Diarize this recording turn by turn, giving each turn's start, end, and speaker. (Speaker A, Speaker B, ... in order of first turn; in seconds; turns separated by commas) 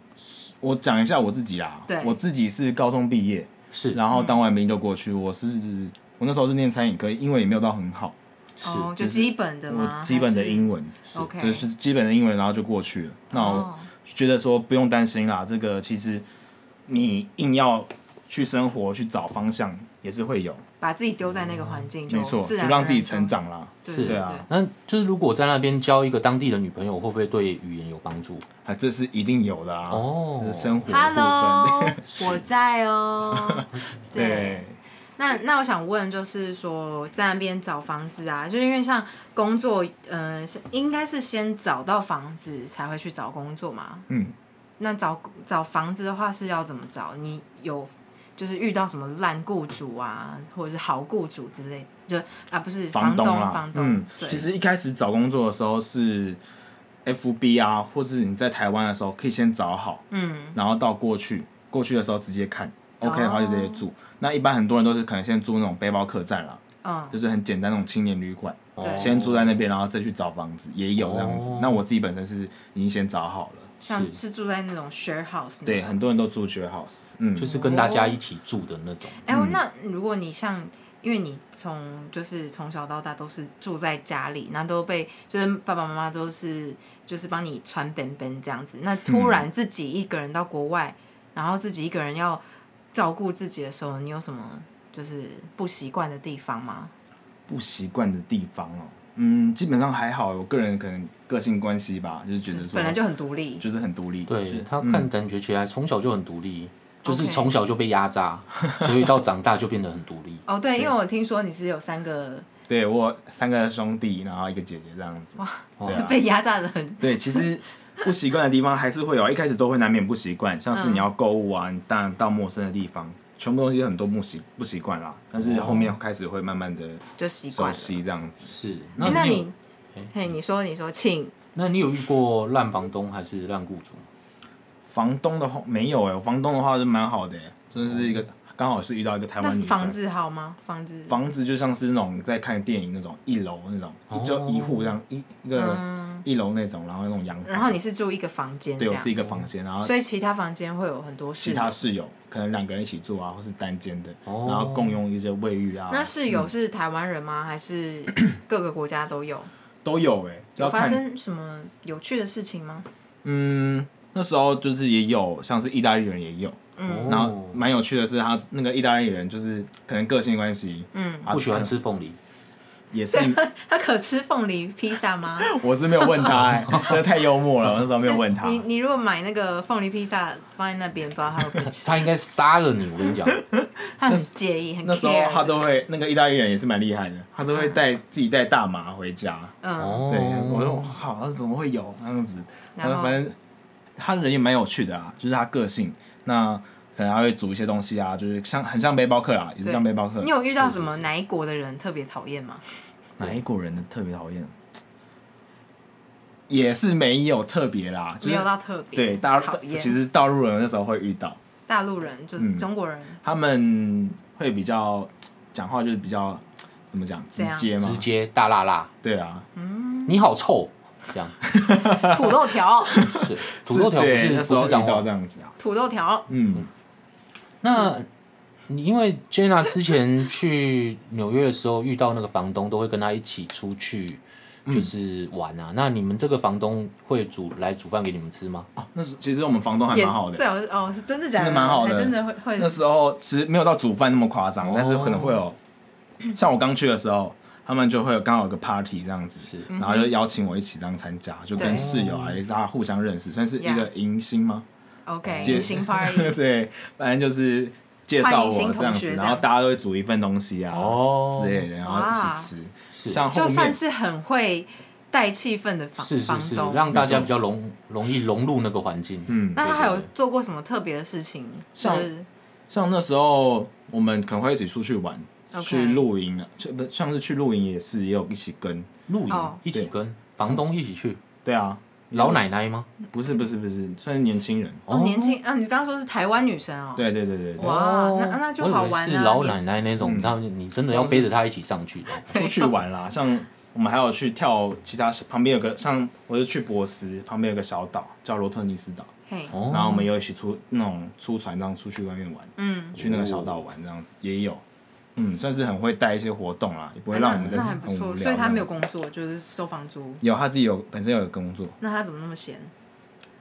Speaker A: 0.3-8.2, Speaker B: 1.9-2.2, Speaker C: 3.7-4.0, Speaker B: 4.1-4.4, Speaker C: 8.6-8.9, Speaker B: 8.6-11.7, Speaker A: 9.0-16.3, Speaker B: 13.3-13.9, Speaker A: 16.9-20.6, Speaker B: 20.8-23.3, Speaker C: 21.3-21.9, Speaker A: 22.1-24.5, Speaker B: 23.9-24.5, Speaker C: 23.9-28.5, Speaker A: 28.6-32.3, Speaker C: 29.9-30.9, Speaker B: 30.9-34.6, Speaker A: 33.4-34.8, Speaker C: 33.7-34.0, Speaker B: 35.2-44.1, Speaker A: 44.1-44.4, Speaker B: 44.8-54.5, Speaker A: 52.9-56.4, Speaker A: 57.0-66.6, Speaker B: 60.1-60.6, Speaker B: 63.0-63.9, Speaker B: 66.8-67.2, Speaker A: 67.1-73.8, Speaker C: 68.8-69.6, Speaker B: 68.8-69.1, Speaker C: 71.0-71.8, Speaker B: 73.8-76.0, Speaker C: 73.9-74.2, Speaker A: 75.7-77.6, Speaker C: 77.4-79.2, Speaker B: 77.5-78.2, Speaker B: 79.2-92.4, Speaker A: 79.3-79.6, Speaker A: 89.1-89.5, Speaker B: 92.9-96.9, Speaker A: 97.5-103.0, Speaker B: 102.5-103.6, Speaker A: 103.6-105.1, Speaker C: 104.3-110.4, Speaker B: 107.0-107.5, Speaker B: 110.5-112.5, Speaker A: 112.7-116.2, Speaker B: 115.4-117.5, Speaker C: 115.8-116.1, Speaker A: 117.0-129.4, Speaker B: 120.7-121.1, Speaker C: 125.4-125.9, Speaker B: 127.2-128.0, Speaker C: 128.5-130.1, Speaker B: 129.0-129.6, Speaker B: 130.1-131.3, Speaker C: 131.6-134.1, Speaker A: 134.9-140.0, Speaker C: 137.8-138.2, Speaker B: 139.4-141.2, Speaker A: 141.1-147.8, Speaker C: 144.1-144.9, Speaker B: 145.5-146.2, Speaker B: 147.4-149.1, Speaker A: 148.8-149.9, Speaker B: 149.8-151.8, Speaker A: 151.4-156.5, Speaker C: 154.3-155.0, Speaker B: 155.9-159.5, Speaker A: 159.8-161.0, Speaker B: 160.6-162.9, Speaker A: 163.2-171.7, Speaker B: 166.8-167.3, Speaker C: 166.9-167.6, Speaker B: 170.9-171.3, Speaker C: 171.3-172.2, Speaker A: 172.9-173.4, Speaker B: 173.1-176.3, Speaker A: 175.4-178.6, Speaker B: 178.1-182.1, Speaker C: 181.6-183.4, Speaker A: 183.3-184.3, Speaker B: 184.0-185.7, Speaker A: 184.8-189.6, Speaker B: 187.5-187.8, Speaker B: 189.6-190.1, Speaker C: 189.8-190.9, Speaker A: 190.1-193.4, Speaker B: 192.8-193.2, Speaker A: 194.0-200.3, Speaker B: 199.6-202.6, Speaker A: 203.2-204.6, Speaker A: 206.5-211.4, Speaker B: 208.2-210.0, Speaker B: 211.7-213.2, Speaker A: 212.4-212.7, Speaker A: 213.2-218.1, Speaker B: 217.4-217.7, Speaker C: 217.8-218.9, Speaker A: 219.0-219.5, Speaker B: 219.6-220.2, Speaker C: 220.1-221.4, Speaker A: 221.4-225.5, Speaker B: 221.8-223.0, Speaker C: 223.0-225.1, Speaker B: 225.6-226.3, Speaker A: 226.3-226.7, Speaker C: 227.6-228.1, Speaker C: 228.7-238.7, Speaker A: 234.7-234.9, Speaker A: 238.8-240.4, Speaker B: 239.9-242.8, Speaker A: 241.4-245.6, Speaker C: 244.6-245.4, Speaker A: 246.3-254.7, Speaker C: 249.4-249.7, Speaker B: 249.7-250.1, Speaker B: 251.6-251.9, Speaker C: 251.6-252.4, Speaker B: 253.6-253.9, Speaker B: 255.1-256.4, Speaker C: 255.3-255.7, Speaker A: 255.4-263.8, Speaker B: 258.2-259.4, Speaker C: 260.7-261.7, Speaker B: 261.8-262.5, Speaker C: 262.9-263.2, Speaker B: 263.3-266.9, Speaker C: 266.0-270.1, Speaker A: 266.9-267.3, Speaker A: 269.3-269.6, Speaker B: 269.6-272.3, Speaker A: 271.8-272.1, Speaker A: 272.7-278.9, Speaker B: 275.5-276.1, Speaker C: 279.1-281.2, Speaker B: 279.3-279.6, Speaker A: 281.4-282.4, Speaker C: 282.1-282.9, Speaker A: 283.1-284.9, Speaker C: 284.9-285.4, Speaker B: 284.9-287.1, Speaker A: 287.0-287.8, Speaker B: 287.6-289.7, Speaker C: 287.6-292.3, Speaker A: 290.0-290.4, Speaker A: 290.9-291.3, Speaker A: 292.3-299.1, Speaker B: 292.3-292.7, Speaker B: 299.3-299.6, Speaker C: 299.5-300.1, Speaker A: 299.7-304.6, Speaker B: 302.6-303.0, Speaker C: 303.0-303.6, Speaker A: 305.2-308.8, Speaker B: 307.1-310.2, Speaker A: 310.2-311.8, Speaker B: 311.8-312.7